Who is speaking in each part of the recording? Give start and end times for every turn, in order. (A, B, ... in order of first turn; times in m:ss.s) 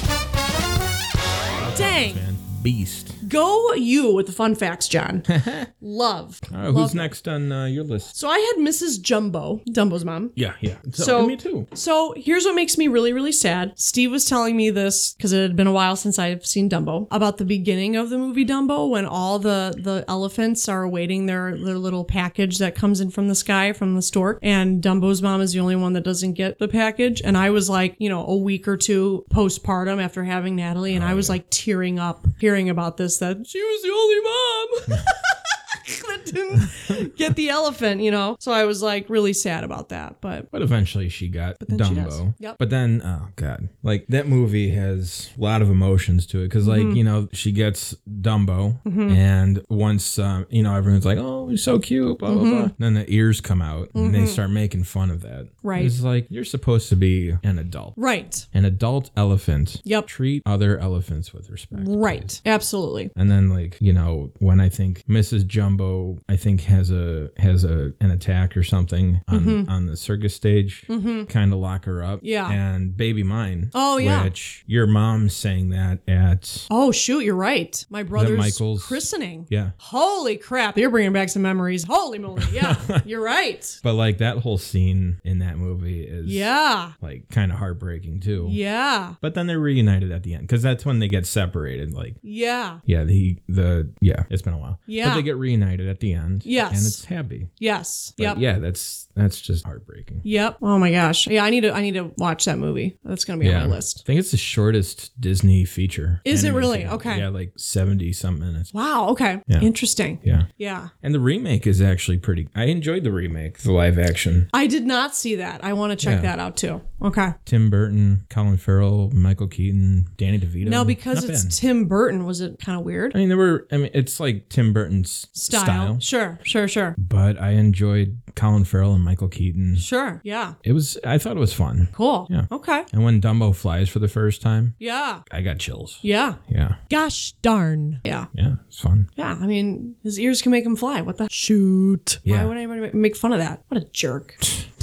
0:01.6-0:03.2 A
0:01.7-0:02.2 B
0:03.2-0:07.1 B
0:05.3-0:05.7 A
0:06.5-0:08.1 A
0:08.1-0:10.4 B
0:10.4-0:11.7 A
0:10.9-0:40.5 B
0:30.9-0:31.4 A
0:40.5-0:58.0 A
0:41.6-0:42.6 B
0:46.6-0:47.0 B
0:48.8-0:49.2 B
0:52.3-0:52.7 B
0:53.9-0:54.4 B
0:55.6-0:55.9 B
0:58.0-0:58.4 B
0:58.5-1:02.3 A
1:01.7-1:03.1 B
1:03.1-1:16.7 A
1:09.3-1:09.7 B
1:10.9-1:11.3 B
1:12.2-1:12.6 B
1:13.7-1:14.3 B
1:16.7-1:23.8 B
1:18.1-1:19.7 A
1:22.4-1:23.0 A
1:23.8-1:28.6 A
1:26.2-1:26.9 B
1:28.4-1:29.2 B
1:29.2-1:32.2 A
1:32.2-1:32.8 B
1:32.8-1:37.5 A
1:34.9-1:35.2 B
1:36.4-1:37.0 B
1:37.6-1:38.4 B
1:38.2-1:40.2 A
1:40.2-1:44.0 B
1:43.4-1:48.7 A
1:46.2-1:47.2 B
1:48.7-1:50.9 B
1:50.2-1:50.5 A
1:51.0-1:54.5 A
1:54.5-1:57.4 B
1:56.0-1:56.3 A
1:57.4-2:01.6 A
2:00.6-2:03.2 B
2:03.1-2:06.0 A
2:05.3-2:07.0 B
2:07.0-2:09.8 A
2:09.8-2:10.6 B
2:10.6-2:16.8 A
2:11.9-2:12.8 B
2:14.8-2:15.2 B
2:16.0-2:18.3 B
2:18.3-2:19.1 A
2:19.2-2:24.6 B
2:22.2-2:22.5 A